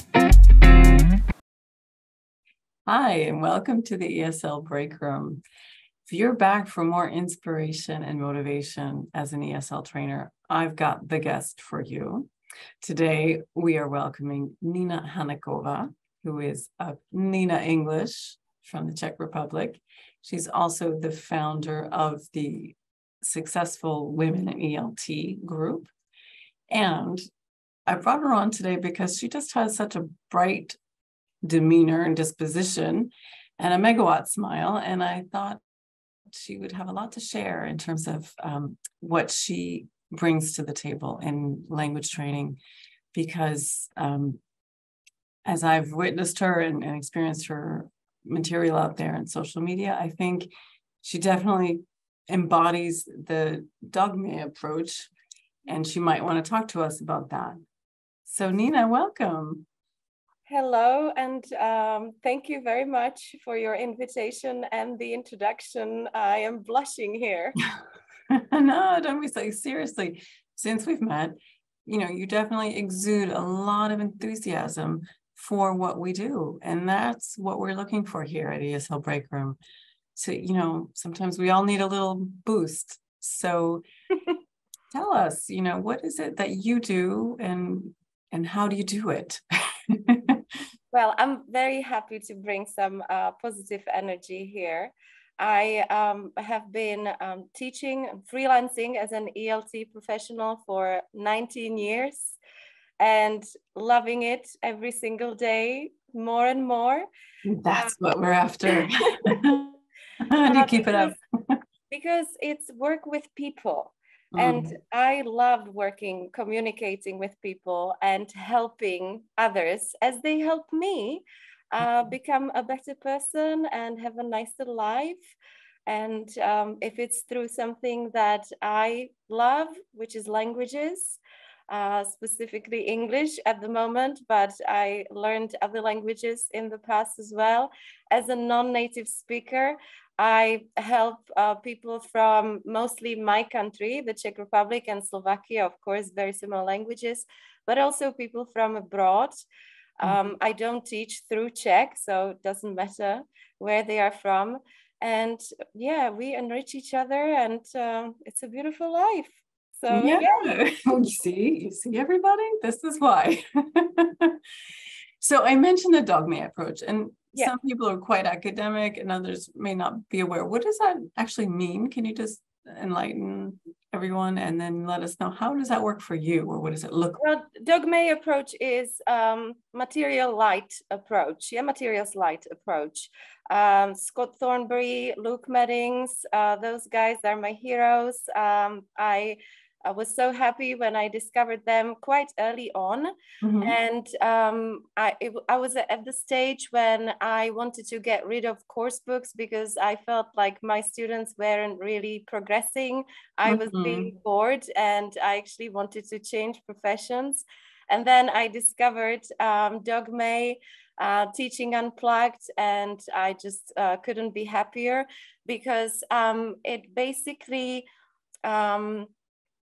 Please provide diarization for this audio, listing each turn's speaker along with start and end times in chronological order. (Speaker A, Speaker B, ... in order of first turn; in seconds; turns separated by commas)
Speaker A: 2.9-5.4, Speaker A: 6.1-12.3, Speaker A: 12.8-25.9, Speaker A: 26.7-27.2, Speaker A: 27.9-30.8, Speaker A: 31.4-35.6, Speaker A: 36.3-42.6, Speaker A: 43.1-44.4, Speaker A: 45.5-50.5, Speaker A: 51.0-55.1, Speaker A: 55.7-57.6, Speaker A: 58.2-59.6, Speaker B: 60.5-67.6, Speaker A: 68.3-79.6, Speaker A: 80.2-83.8, Speaker A: 84.9-90.4, Speaker B: 90.9-102.4, Speaker B: 103.0-107.0, Speaker A: 107.4-111.6, Speaker B: 110.4-111.2, Speaker B: 111.9-125.3, Speaker A: 114.3-114.8, Speaker B: 125.9-149.3, Speaker B: 150.0-160.4, Speaker A: 159.9-164.4, Speaker A: 165.2-177.2, Speaker B: 177.2-193.1, Speaker A: 193.4-193.7, Speaker B: 193.6-217.8, Speaker A: 203.4-204.1, Speaker B: 218.4-219.1